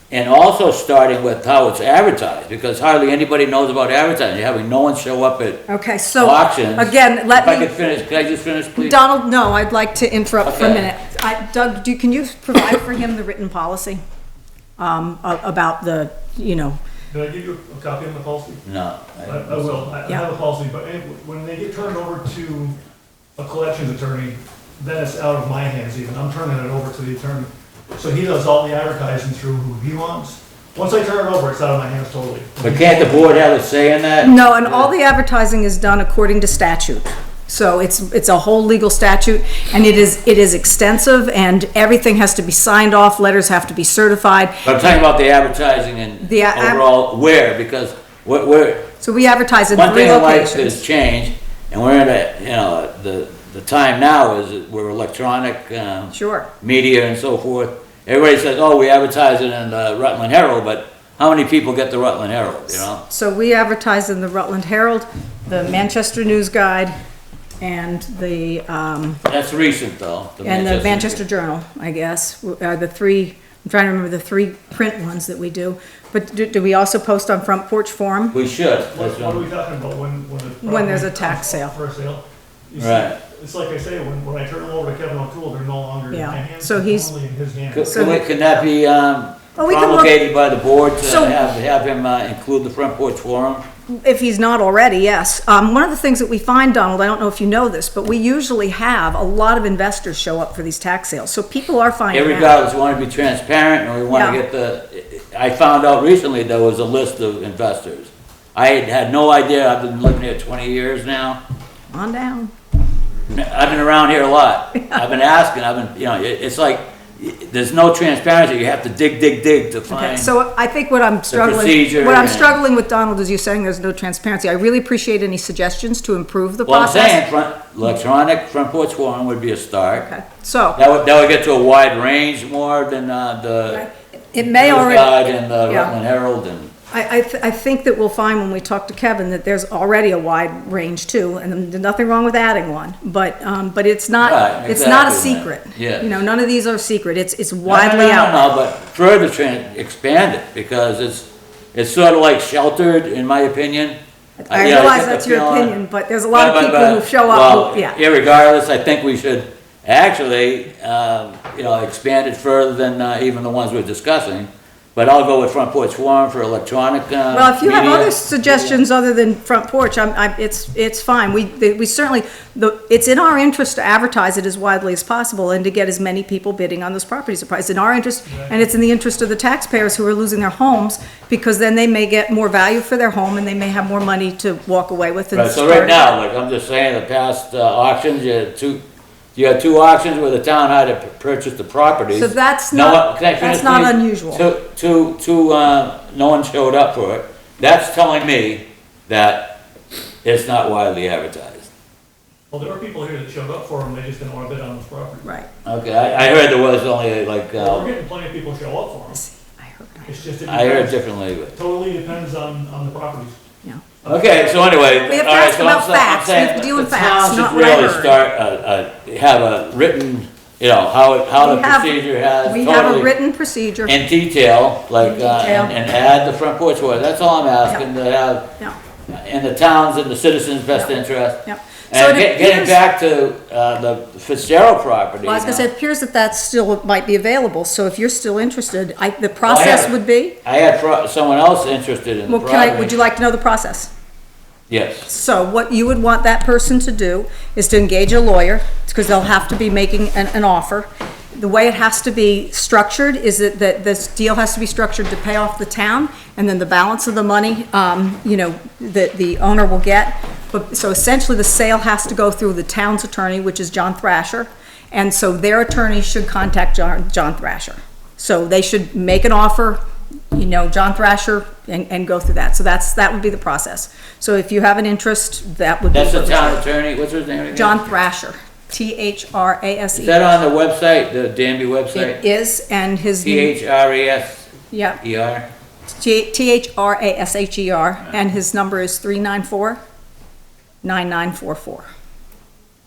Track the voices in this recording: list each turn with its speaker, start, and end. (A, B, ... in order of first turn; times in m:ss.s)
0:00.1-0:05.6 A
0:05.7-0:07.8 B
0:06.2-0:09.0 A
0:08.8-0:14.0 B
0:10.4-0:10.9 A
0:14.8-0:16.8 B
0:17.1-0:18.6 C
0:18.6-0:19.9 A
0:19.2-0:22.8 C
0:23.4-0:33.3 C
0:32.6-0:34.9 A
0:34.2-0:44.8 B
0:44.6-0:48.9 A
0:46.2-0:46.8 B
0:49.0-0:50.8 B
0:49.7-1:03.0 A
0:56.1-0:56.5 B
1:03.0-1:06.9 B
1:07.6-1:09.2 B
1:09.2-1:11.2 A
1:10.4-1:18.3 B
1:18.3-1:19.4 A
1:18.9-1:28.1 C
1:20.6-1:21.7 B
1:22.8-1:23.2 A
1:26.1-1:27.1 B
1:27.7-1:33.6 A
1:27.9-1:28.5 B
1:29.6-1:30.2 B
1:31.0-1:31.5 B
1:34.0-1:42.5 B
1:42.1-1:51.4 A
1:44.1-1:44.4 B
1:51.9-1:52.5 B
1:53.3-2:00.3 A
1:59.9-2:07.2 B
2:01.3-2:02.6 A
2:06.6-2:10.0 A
2:09.9-2:10.8 B
2:10.8-2:13.8 A
2:13.7-2:15.9 B
2:14.4-2:16.7 A
2:16.9-2:28.5 B
2:24.2-2:26.2 A
2:27.6-2:34.0 A
2:34.4-2:38.0 B
2:34.5-2:35.7 A
2:36.3-2:48.8 A
2:47.3-3:06.2 B
2:58.3-2:58.6 C
3:05.3-3:08.8 A
3:09.3-3:19.6 A
3:12.1-3:14.4 B
3:20.2-3:21.7 A
3:22.5-3:25.2 C
3:25.2-3:25.5 B
3:25.6-3:27.9 A
3:27.6-3:29.2 C
3:29.1-3:30.2 B
3:30.0-3:30.9 C
3:30.4-3:31.6 A
3:31.5-3:33.4 C
3:34.0-3:34.5 C
3:34.0-3:43.1 A
3:34.6-3:38.2 B
3:41.4-3:44.0 B
3:43.8-3:48.4 A
3:45.0-3:45.7 B
3:49.1-3:55.7 A
3:51.4-3:52.8 B
3:55.2-4:00.4 B
3:59.4-3:59.9 A
4:00.4-4:03.0 A
4:02.3-4:03.9 B
4:04.7-4:05.1 A
4:05.1-4:29.8 B
4:30.3-4:36.6 B
4:35.9-4:37.9 A
4:37.5-4:40.3 B
4:39.9-4:42.2 A
4:41.9-4:43.5 B
4:43.2-4:45.5 A
4:44.7-4:45.0 B
4:45.9-4:49.8 B
4:50.8-4:51.9 B